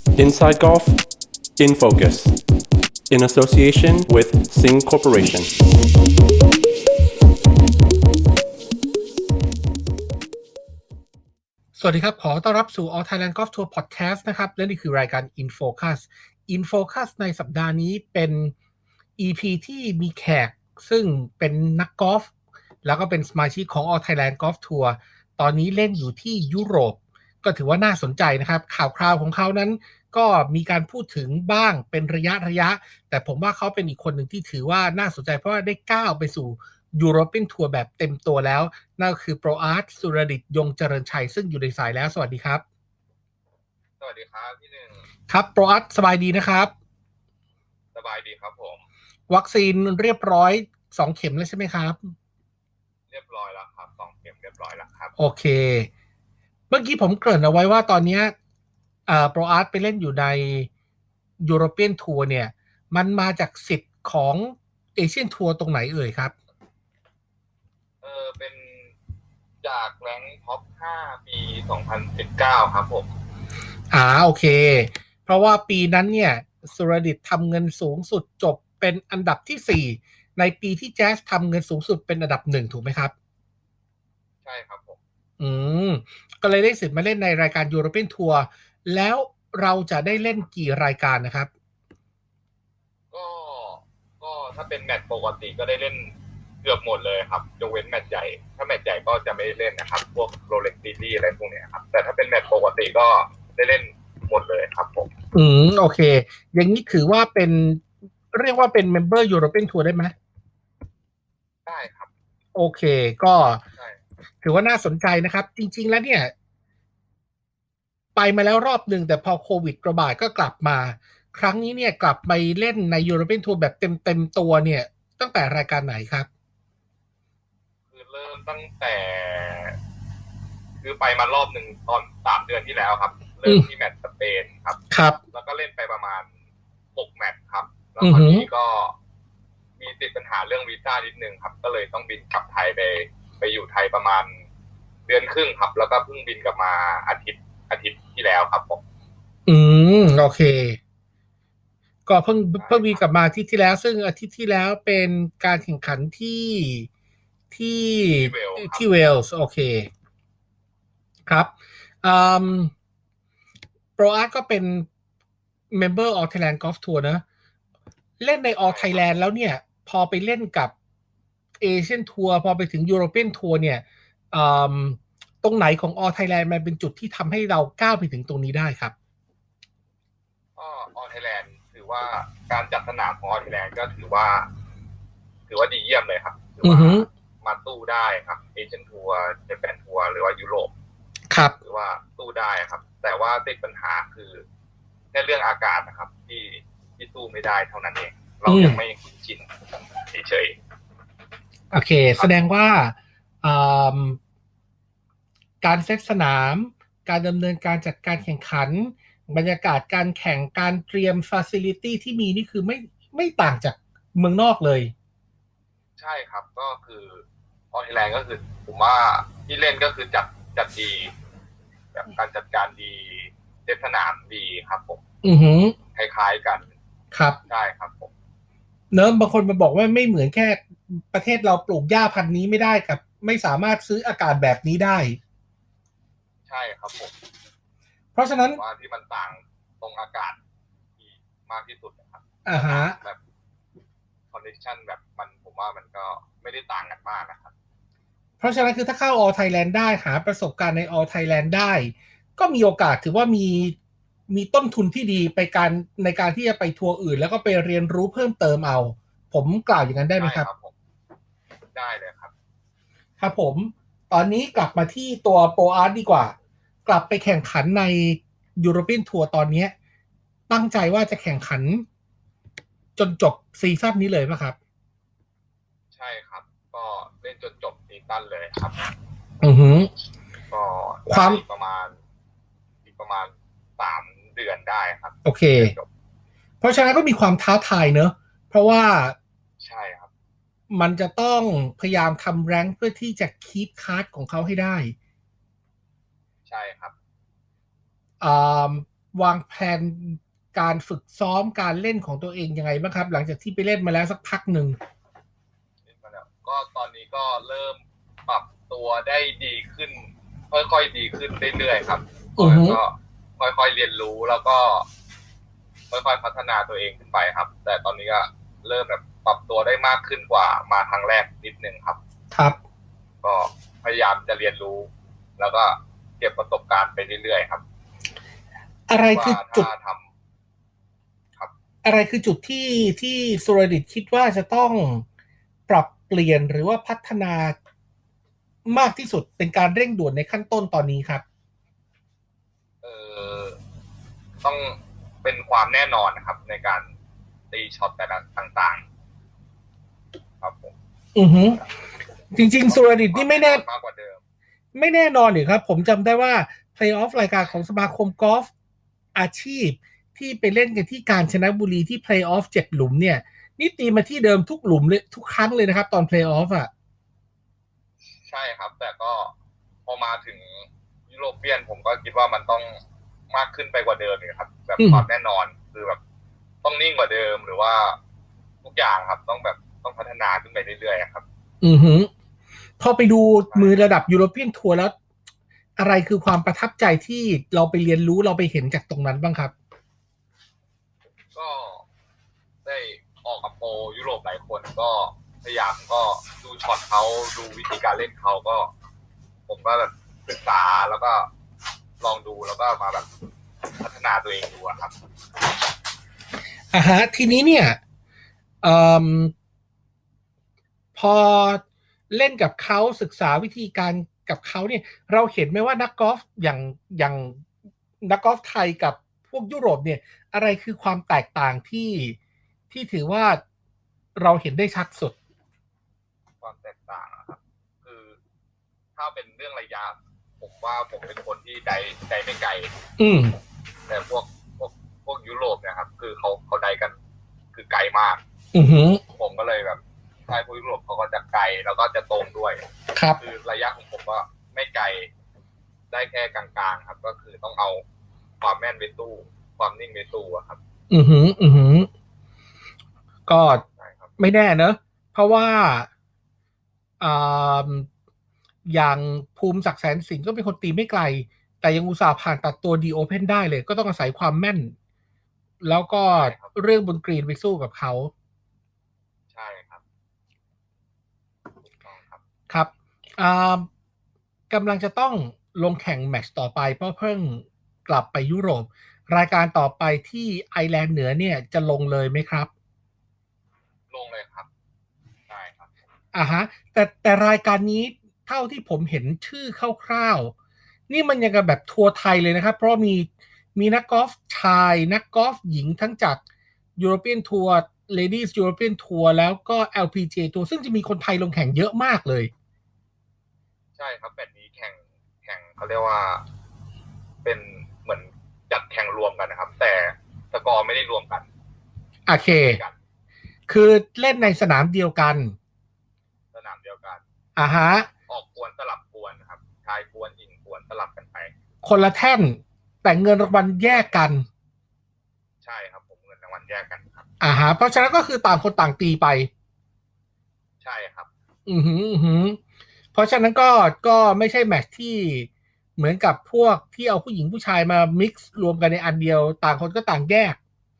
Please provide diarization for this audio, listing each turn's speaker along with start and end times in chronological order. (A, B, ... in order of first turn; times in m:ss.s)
0:00.1-0:01.0 A
0:01.6-0:02.4 A
0:03.1-0:05.5 A
0:11.8-0:18.5 B
0:19.2-0:22.3 B
0:22.8-0:42.6 B
0:44.0-0:45.1 C
0:45.3-0:46.7 B
0:47.9-0:48.8 C
0:49.3-0:52.1 B
0:53.1-0:55.1 C
0:55.2-0:55.9 B
0:56.7-0:58.3 B
0:59.1-1:00.7 B
1:01.4-1:06.3 B
1:08.0-1:08.9 C
1:09.6-1:13.1 C
1:13.9-1:23.1 B
1:24.4-1:25.0 C
1:25.4-1:31.5 B
1:33.1-1:45.1 C
1:45.3-1:50.1 B
1:51.6-1:52.1 C
1:52.5-1:53.6 B
1:53.6-1:54.0 C
1:54.4-1:56.3 B
1:58.2-2:06.3 B
2:07.9-2:09.8 C
2:10.8-2:14.8 C
2:14.9-2:15.2 B
2:15.3-2:16.3 C
2:16.9-2:19.0 C
2:18.0-2:18.5 B
2:19.8-2:24.4 C
2:25.1-2:28.8 C
2:29.5-2:30.8 B
2:32.0-2:36.9 B
2:32.6-2:33.0 C
2:37.5-2:39.9 B
2:38.1-2:38.9 C
2:41.3-2:41.5 B
2:42.0-2:42.7 B
2:44.0-2:44.9 B
2:45.7-2:47.2 B
2:48.2-2:50.7 B
2:48.6-2:49.1 C
2:51.6-2:58.9 B
3:00.6-3:04.5 C
3:05.5-3:10.7 C
3:06.6-3:07.1 B
3:11.3-3:11.6 B
3:11.6-3:14.4 C
3:15.1-3:19.5 C
3:18.4-3:18.8 B
3:20.1-3:20.6 C
3:21.7-3:24.2 B
3:25.6-3:34.9 B
3:36.0-3:41.1 C
3:41.9-3:45.0 C
3:45.2-3:45.8 B
3:45.9-3:46.7 C
3:47.1-3:47.4 B
3:47.5-3:48.1 C
3:48.9-3:55.2 B
3:56.4-3:57.1 C
3:58.1-3:58.6 B
3:58.4-4:00.4 C
4:01.0-4:03.2 C
4:02.4-4:03.0 B
4:04.3-4:07.5 C
4:08.4-4:13.7 B
4:14.3-4:20.5 B
4:20.2-4:20.7 C
4:21.7-4:22.3 C
4:23.2-4:26.3 B
4:26.8-4:29.7 B
4:30.5-4:31.8 B
4:33.0-4:34.6 B
4:35.9-4:38.8 C
4:39.4-4:39.9 B
4:40.5-4:42.0 C
4:41.1-4:41.4 B
4:42.8-4:45.9 C
4:45.2-4:45.7 B
4:46.6-4:49.2 B
4:49.6-4:50.1 C
4:50.7-4:54.9 B
4:56.4-4:56.9 C
4:58.2-5:04.8 B
5:05.8-5:14.9 C
5:12.4-5:12.8 B
5:15.9-5:22.0 C
5:22.3-5:22.6 B
5:23.2-5:27.6 C
5:28.9-5:29.7 B
5:29.0-5:30.1 C
5:31.8-5:35.0 B
5:35.7-5:37.6 B
5:38.6-5:41.2 B
5:42.8-5:43.6 C
5:44.4-5:46.9 C
5:47.5-5:48.8 C
5:50.4-5:50.7 C
5:51.1-5:51.6 B
5:52.3-5:53.6 B
5:53.1-5:54.2 C
5:54.7-5:58.5 B
5:59.1-6:06.7 B
6:08.2-6:09.3 C
6:09.8-6:16.0 C
6:14.8-6:15.0 B
6:16.6-6:18.0 C
6:18.6-6:21.2 C
6:21.6-6:22.1 B
6:22.8-6:24.9 B
6:23.5-6:23.9 C
6:25.8-6:29.5 B
6:31.3-6:31.8 C
6:32.6-6:38.7 C
6:39.5-6:41.3 C
6:42.0-6:43.1 C
6:43.8-6:44.9 C
6:46.7-6:47.8 B
6:48.6-6:49.3 B
6:51.0-6:57.4 B
6:58.0-7:02.2 B
7:02.7-7:03.4 B
7:04.2-7:05.2 B
7:06.4-7:08.2 C
7:09.0-7:12.7 C
7:13.0-7:13.4 B
7:13.9-7:17.0 C
7:17.5-7:18.2 C
7:18.5-7:19.0 B
7:19.1-7:22.6 C
7:22.9-7:23.2 B
7:23.2-7:25.1 C
7:25.9-7:27.8 C
7:28.4-7:30.6 C
7:30.9-7:31.9 B
7:33.3-7:33.6 B
7:33.6-7:34.1 C
7:34.2-7:35.9 B
7:37.0-7:37.9 B
7:38.6-7:44.7 B
7:45.6-7:48.1 B
7:46.1-7:46.5 C
7:49.3-7:49.8 C
7:51.8-7:52.2 C
7:52.5-7:53.7 B
7:54.5-8:02.5 B
8:03.9-8:04.5 C
8:05.3-8:05.7 C
8:06.1-8:10.3 B
8:10.9-8:16.2 B
8:16.8-8:22.3 B
8:23.7-8:26.2 C
8:27.2-8:31.3 C
8:32.0-8:32.6 B
8:32.2-8:32.8 C
8:33.5-8:35.3 B
8:36.3-8:37.0 C
8:37.4-8:37.9 B
8:38.1-8:41.3 C
8:41.6-8:44.2 B
8:43.6-8:44.0 C
8:45.4-8:47.0 C
8:47.2-8:49.3 B
8:50.6-8:51.1 C
8:51.4-8:52.4 B
8:52.9-9:00.4 B